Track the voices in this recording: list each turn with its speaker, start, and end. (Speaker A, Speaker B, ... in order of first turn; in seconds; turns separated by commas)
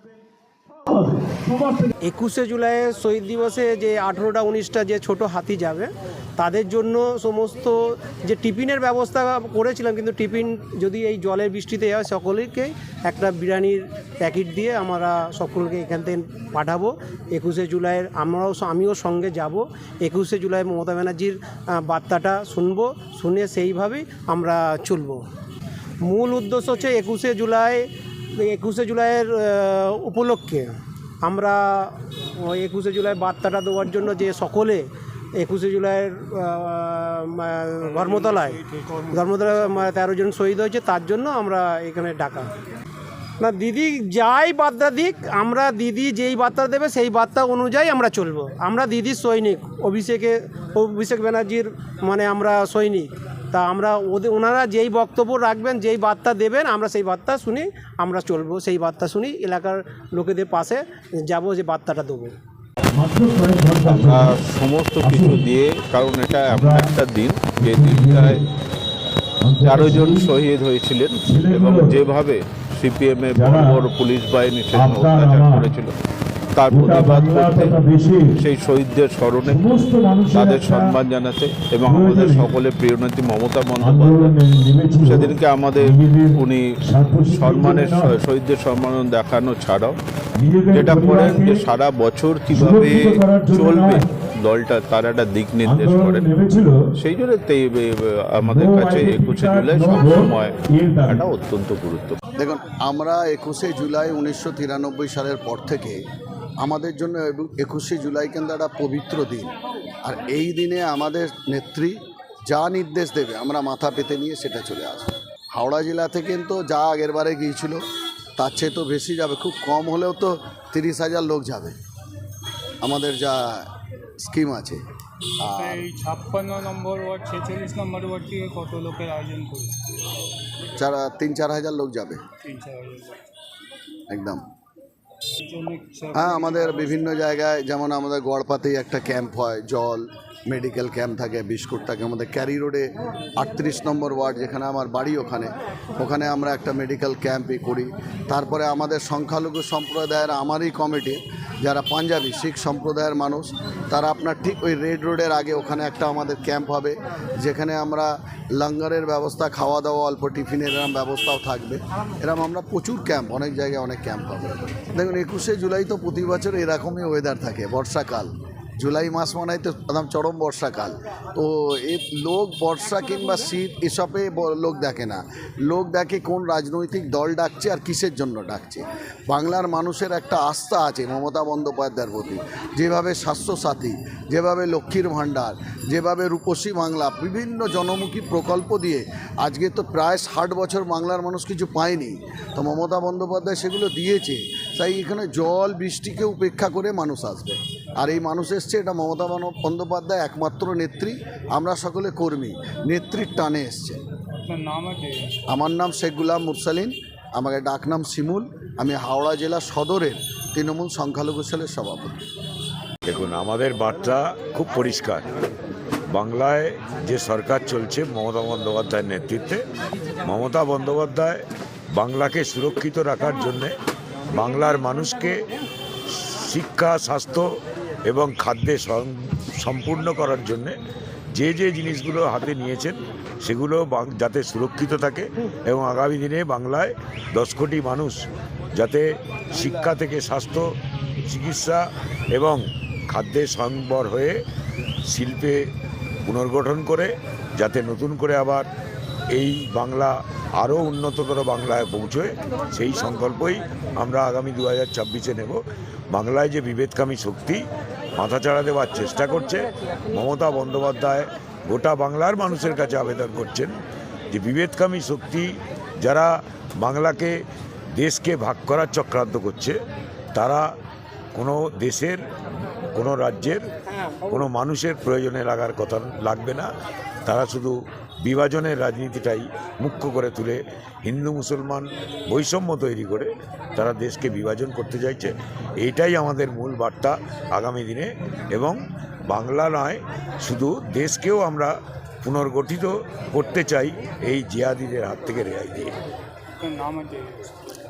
Speaker A: 2.0-25.2, Speaker A: 26.0-30.7, Speaker A: 31.2-38.6, Speaker B: 37.9-40.0, Speaker A: 39.1-42.5, Speaker A: 43.4-62.4, Speaker C: 63.0-64.3, Speaker D: 63.8-68.4, Speaker C: 65.0-65.5, Speaker C: 66.5-66.9, Speaker C: 67.6-68.4, Speaker C: 69.4-70.3, Speaker D: 69.6-75.9, Speaker C: 71.2-72.0, Speaker C: 73.3-73.8, Speaker C: 74.7-75.7, Speaker D: 76.5-77.8, Speaker C: 76.7-78.3, Speaker D: 78.4-79.8, Speaker C: 79.5-81.0, Speaker D: 80.3-84.4, Speaker C: 81.8-82.5, Speaker C: 83.8-88.1, Speaker D: 85.0-86.7, Speaker D: 87.2-90.0, Speaker C: 90.4-91.6, Speaker D: 90.7-102.2, Speaker C: 92.5-94.0, Speaker C: 95.6-96.7, Speaker C: 98.4-100.3, Speaker C: 100.8-101.2, Speaker E: 102.4-106.0, Speaker E: 106.6-109.5, Speaker E: 110.0-117.8, Speaker E: 118.4-121.8, Speaker E: 122.8-123.7, Speaker E: 124.2-124.8, Speaker E: 125.4-125.8, Speaker B: 125.5-130.1, Speaker E: 130.8-132.2, Speaker B: 132.4-133.2, Speaker E: 134.1-134.4, Speaker B: 135.4-137.0, Speaker E: 136.1-204.0, Speaker B: 204.4-205.4, Speaker E: 205.5-212.2, Speaker C: 213.1-215.2, Speaker C: 216.1-219.6, Speaker C: 220.2-221.4, Speaker C: 221.9-223.7, Speaker C: 224.3-225.4, Speaker C: 226.2-227.5, Speaker C: 228.1-230.8, Speaker C: 231.3-238.2, Speaker C: 238.7-240.7, Speaker C: 241.2-241.8, Speaker C: 242.3-244.3, Speaker C: 245.1-245.6, Speaker C: 246.2-248.7, Speaker C: 249.3-257.6, Speaker C: 258.2-263.8, Speaker C: 264.3-265.5, Speaker C: 266.0-267.4, Speaker C: 267.9-269.8, Speaker C: 270.4-270.7, Speaker C: 271.3-272.2, Speaker C: 272.9-273.6, Speaker C: 274.2-276.7, Speaker C: 277.3-291.7, Speaker C: 292.2-295.9, Speaker B: 296.6-297.6